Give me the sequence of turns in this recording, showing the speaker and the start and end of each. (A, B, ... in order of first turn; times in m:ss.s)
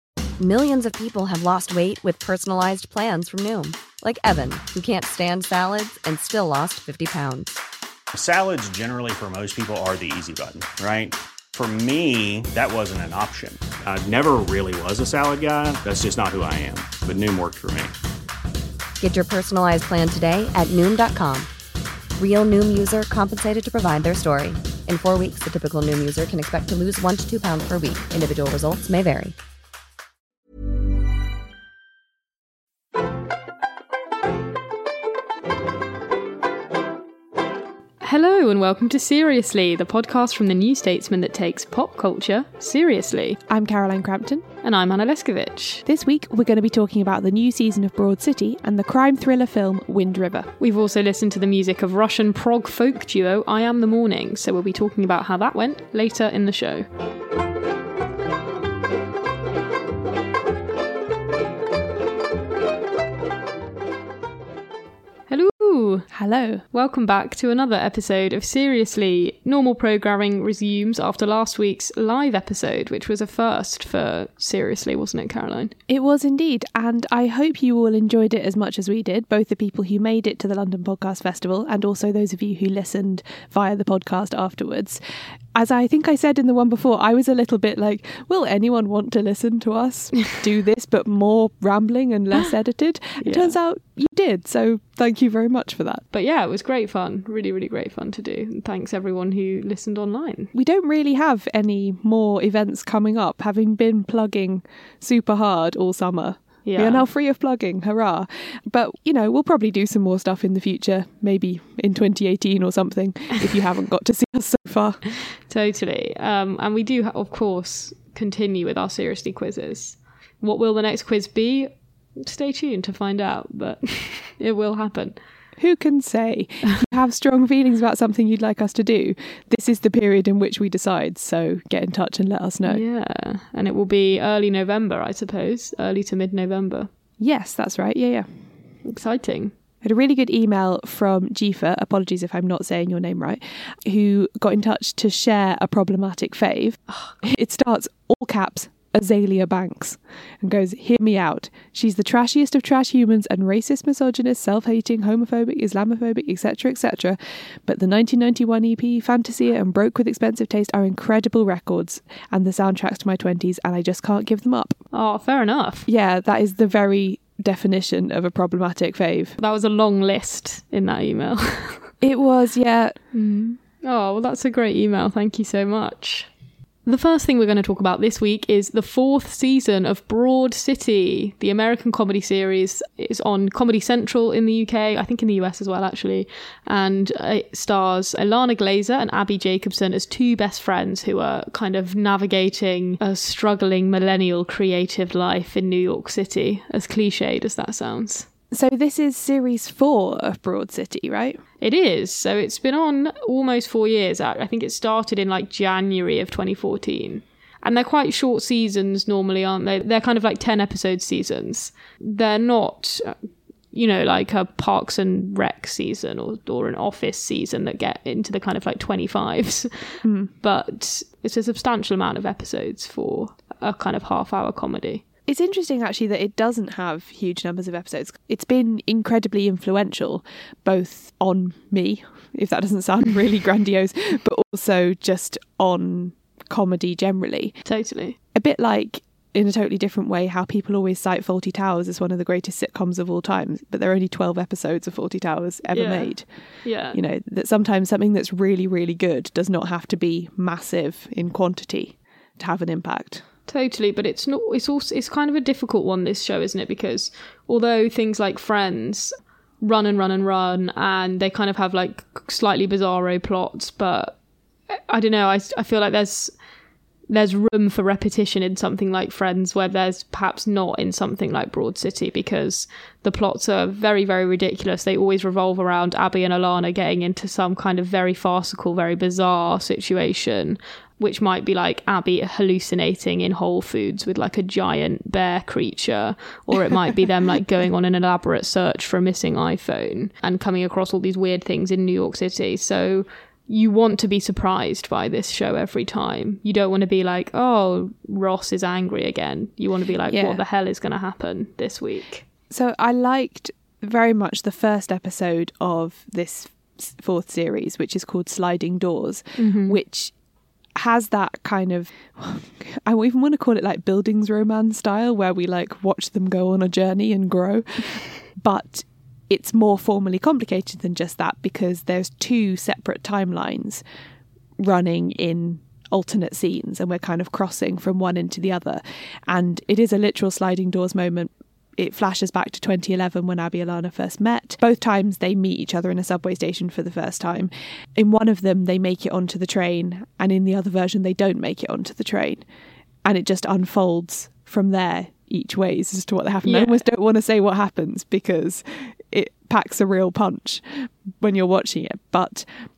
0:00.4-0:07.6 A
0:08.1-0:17.9 B
0:19.0-0:21.5 A
0:22.2-0:29.3 A
0:38.0-0:43.4 C
0:43.5-0:44.4 D
0:44.6-0:45.8 C
0:45.8-0:50.5 D
0:50.6-0:56.9 C
1:05.3-1:06.1 C
1:06.1-1:06.6 D
1:06.7-1:15.7 C
1:15.9-1:25.0 D
1:25.5-1:36.0 D
1:33.2-1:33.5 C
1:36.1-1:40.5 C
1:40.5-1:55.0 D
1:46.6-1:47.0 C
1:55.5-2:05.2 C
2:05.6-2:12.8 D
2:12.6-2:16.9 C
2:17.2-2:18.3 D
2:18.8-2:19.5 C
2:19.8-2:44.8 D
2:44.9-2:45.9 C
2:45.9-2:49.4 D
2:49.4-2:51.9 C
2:52.0-2:53.0 D
2:53.1-2:56.3 C
2:56.8-3:18.3 C
3:18.5-3:21.4 D
3:21.6-3:33.2 C
3:33.7-3:45.0 C
3:40.0-3:40.3 D
3:45.3-3:57.5 D
3:57.6-3:58.2 C
3:58.3-4:06.3 D
4:05.7-4:06.1 C
4:06.6-4:07.0 C
4:06.8-4:13.2 D
4:13.5-4:24.2 C
4:24.7-4:26.4 C
4:27.1-5:02.2 C
5:00.1-5:00.4 D
5:02.5-5:10.1 D
5:09.4-5:09.8 C
5:10.8-5:23.8 D
5:24.6-5:42.4 D
5:43.0-5:50.6 D
5:46.4-5:46.8 C
5:51.2-5:52.5 D